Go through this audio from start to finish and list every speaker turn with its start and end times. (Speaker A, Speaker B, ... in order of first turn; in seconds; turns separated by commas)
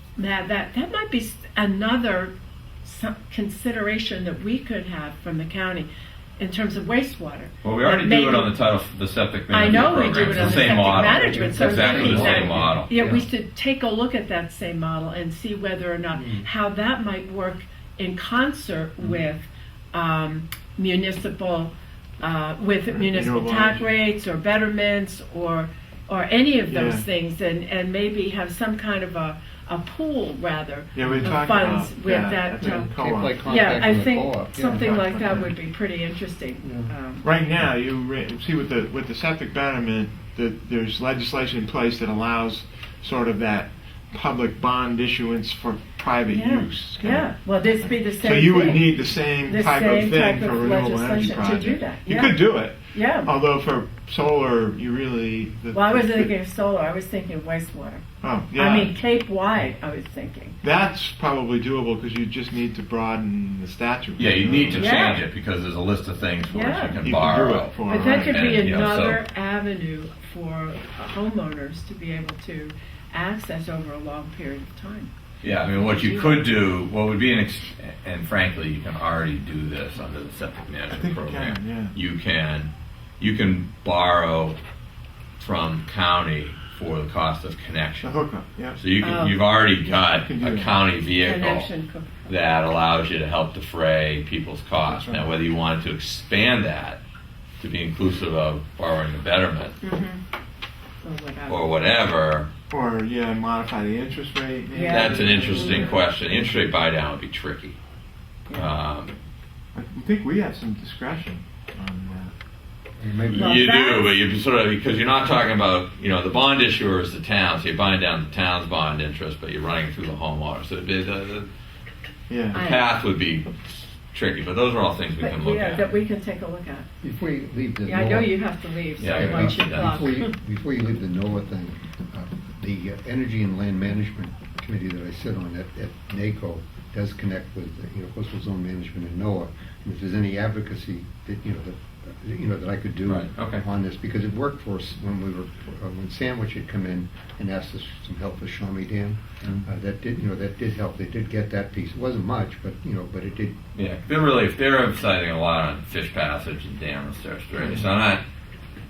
Speaker A: 0.2-8.5, Speaker B: 7.6-13.0, Speaker A: 9.5-37.3, Speaker C: 9.8-13.2, Speaker C: 16.1-16.5, Speaker D: 22.9-23.9, Speaker D: 26.7-27.1, Speaker D: 30.9-33.9, Speaker C: 31.0-31.3, Speaker C: 32.6-35.4, Speaker D: 34.7-35.5, Speaker C: 36.6-36.9, Speaker D: 37.2-56.3, Speaker A: 46.3-53.3, Speaker A: 55.7-60.6, Speaker D: 58.2-58.9, Speaker D: 60.6-65.1, Speaker B: 64.2-69.2, Speaker A: 64.7-65.2, Speaker A: 66.5-67.0, Speaker D: 67.0-68.4, Speaker A: 67.9-75.1, Speaker B: 75.4-84.6, Speaker A: 75.8-76.6, Speaker D: 80.9-82.0, Speaker B: 85.4-88.1, Speaker D: 88.0-88.8, Speaker B: 88.8-91.7, Speaker A: 89.0-89.5, Speaker D: 90.0-90.7, Speaker A: 91.2-92.3, Speaker B: 92.3-97.0, Speaker D: 94.8-95.3, Speaker B: 97.6-99.8, Speaker A: 99.8-100.2, Speaker A: 101.0-101.7, Speaker B: 101.5-102.5, Speaker D: 102.7-106.0, Speaker A: 104.7-105.9, Speaker B: 104.9-107.8, Speaker A: 108.5-108.7, Speaker B: 108.5-109.2, Speaker D: 109.8-112.3, Speaker C: 113.0-113.6, Speaker B: 113.3-121.5, Speaker A: 113.3-114.1, Speaker D: 122.3-122.6, Speaker B: 122.5-125.9, Speaker A: 122.5-122.8, Speaker A: 125.2-126.9, Speaker C: 127.0-128.4, Speaker A: 127.8-130.3, Speaker B: 129.0-130.0, Speaker C: 129.0-153.6, Speaker B: 143.1-143.7, Speaker B: 153.8-158.2